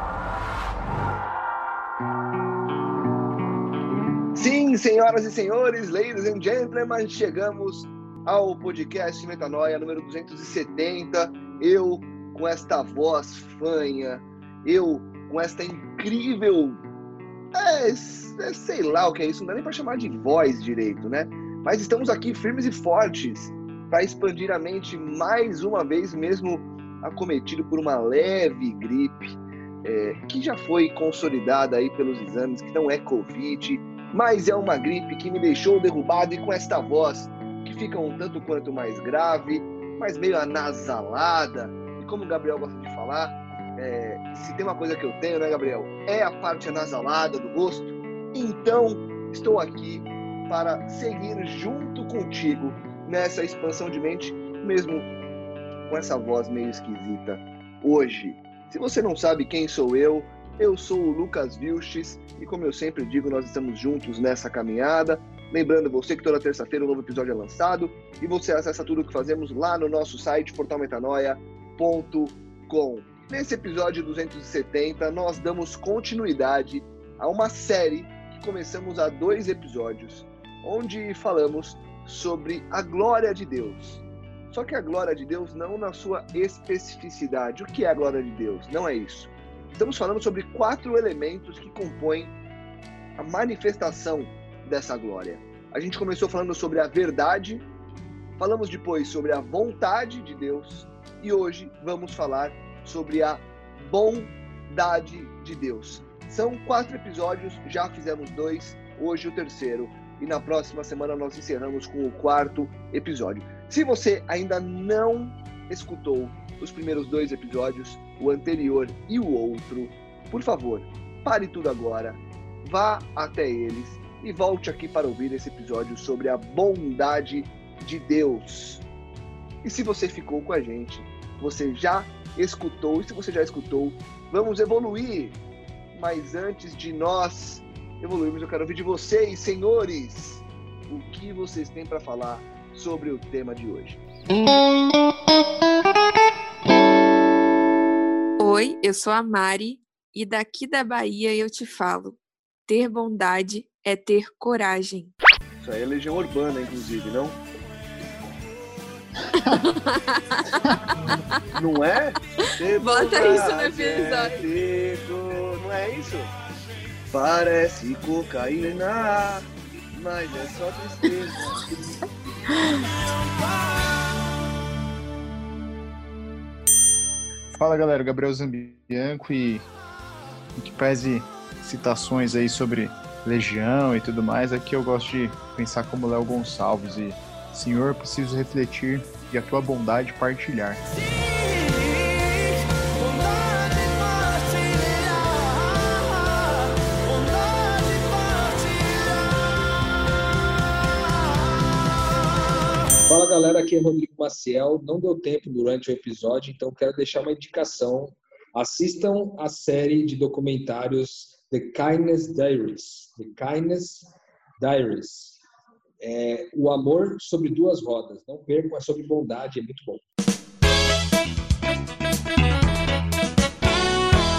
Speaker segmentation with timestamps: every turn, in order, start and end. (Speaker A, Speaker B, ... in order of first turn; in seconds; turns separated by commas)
Speaker A: 4.3-16.8, Speaker A: 17.5-55.1, Speaker A: 55.9-92.3, Speaker A: 93.2-97.7, Speaker A: 98.4-128.8, Speaker A: 129.6-135.4, Speaker A: 135.9-144.0, Speaker B: 148.4-155.1, Speaker A: 155.6-157.4, Speaker B: 159.4-160.7, Speaker A: 161.6-166.3, Speaker B: 162.8-164.4, Speaker A: 167.1-171.7, Speaker C: 177.5-179.6, Speaker C: 180.6-190.8, Speaker D: 203.1-215.4, Speaker D: 216.0-220.0